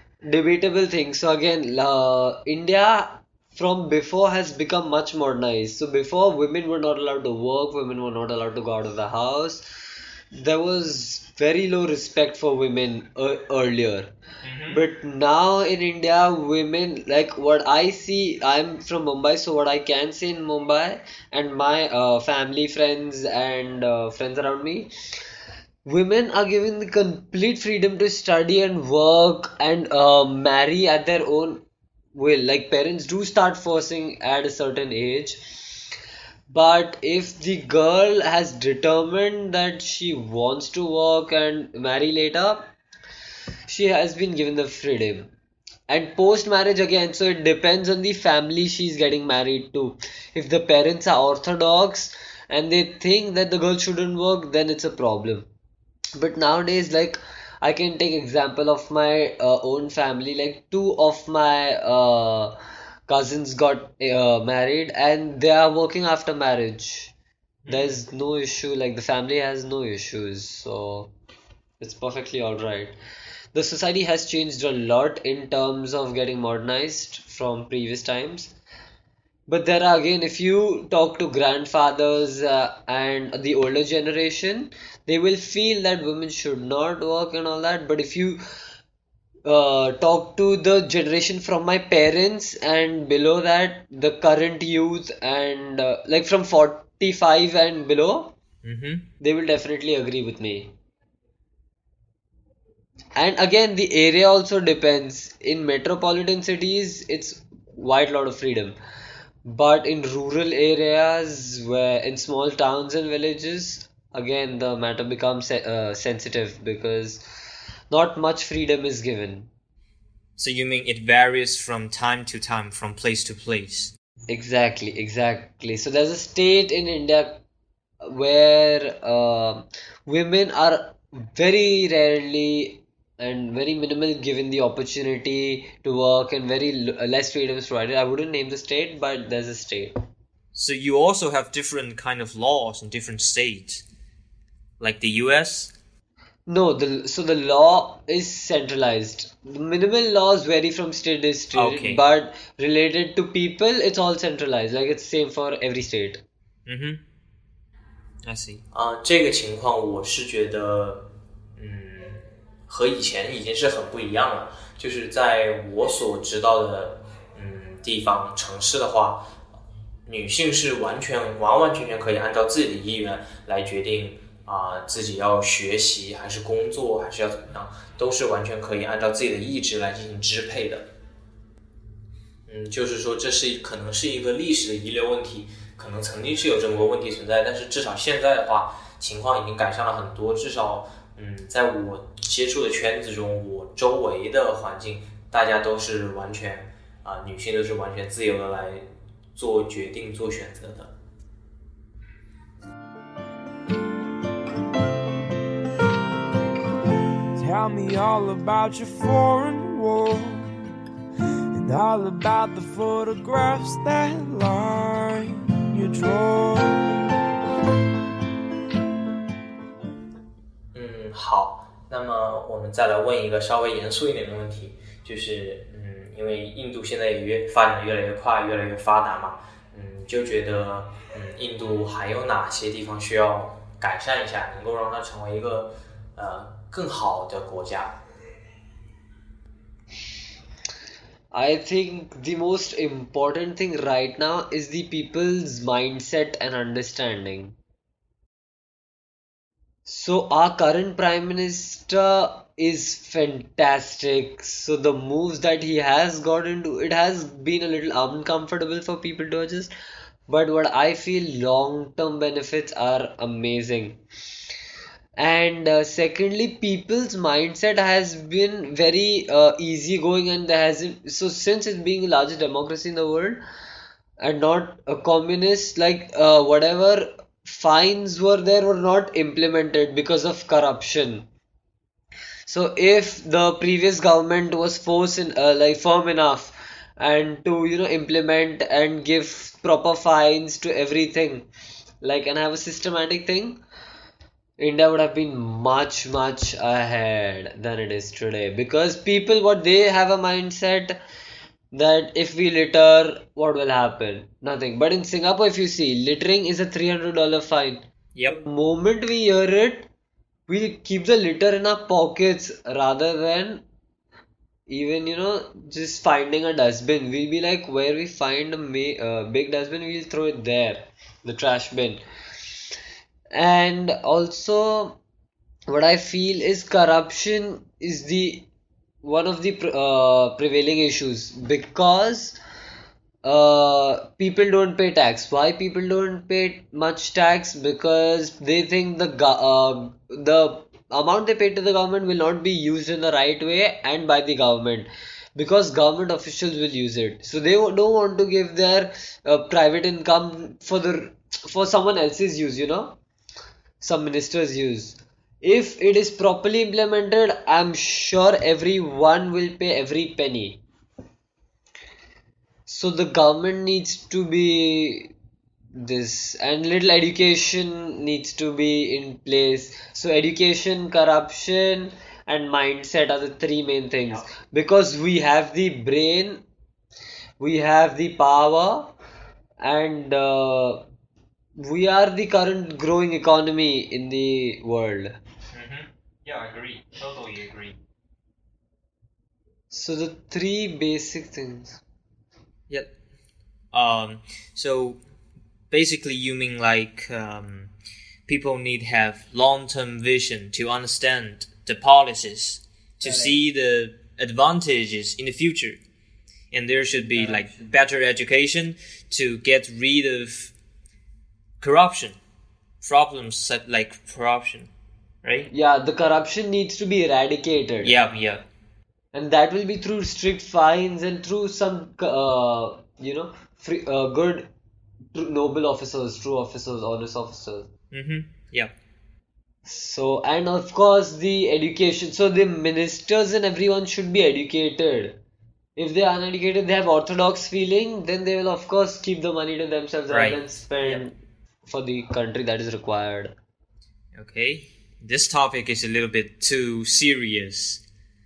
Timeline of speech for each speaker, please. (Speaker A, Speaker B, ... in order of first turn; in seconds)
Speaker A: 0.3-9.7, 10.3-14.1, 14.7-24.9, 25.9-31.6, 32.1-35.4, 36.5-42.7, 43.7-45.3, 45.9-55.5, 56.2-62.5, 63.1-67.1, 67.7-71.1, 71.8-72.9, 73.5-78.5, 79.5-88.4, 89.5-98.3, 99.2-100.7, 103.2-108.8, 109.5-117.2, 117.9-119.5, 124.3-127.4, 128.0-139.9, 146.5-156.2, 241.3-247.6, 249.9-259.7, 260.3-264.0, 265.2-273.4, 274.2-281.3, 282.5-291.5, 292.0-293.6, 294.6-301.0, 301.7-309.9, 310.5-313.6, 314.7-322.0, 323.4-325.0, 325.7-328.5, 329.0-332.4, 333.2-353.0, 353.8-360.6, 362.7-365.1, 365.8-376.4, 377.4-378.9, 379.6-380.9, 381.6-385.2, 389.7-391.8, 403.0-403.3, 407.1-407.7, 415.5-417.9, 419.1-424.5, 425.1-427.7, 429.6-435.2, 435.8-441.2, 441.7-443.3
Speaker B: 14.4-14.8, 67.7-68.0, 98.6-99.1, 120.4-123.9, 140.6-143.8, 144.8-145.7, 151.6-152.0, 156.7-157.0, 158.2-158.6, 308.2-308.4, 385.5-387.8, 393.7-395.0, 395.7-397.7, 398.3-405.8, 406.5-410.5, 411.6-412.2, 412.8-414.7, 415.2-415.5, 417.8-418.4, 427.9-428.7, 440.1-441.0, 444.1-447.8
Speaker C: 158.7-169.3, 170.1-180.9, 182.5-200.9, 220.7-238.0
Speaker D: 207.3-210.7, 211.5-217.2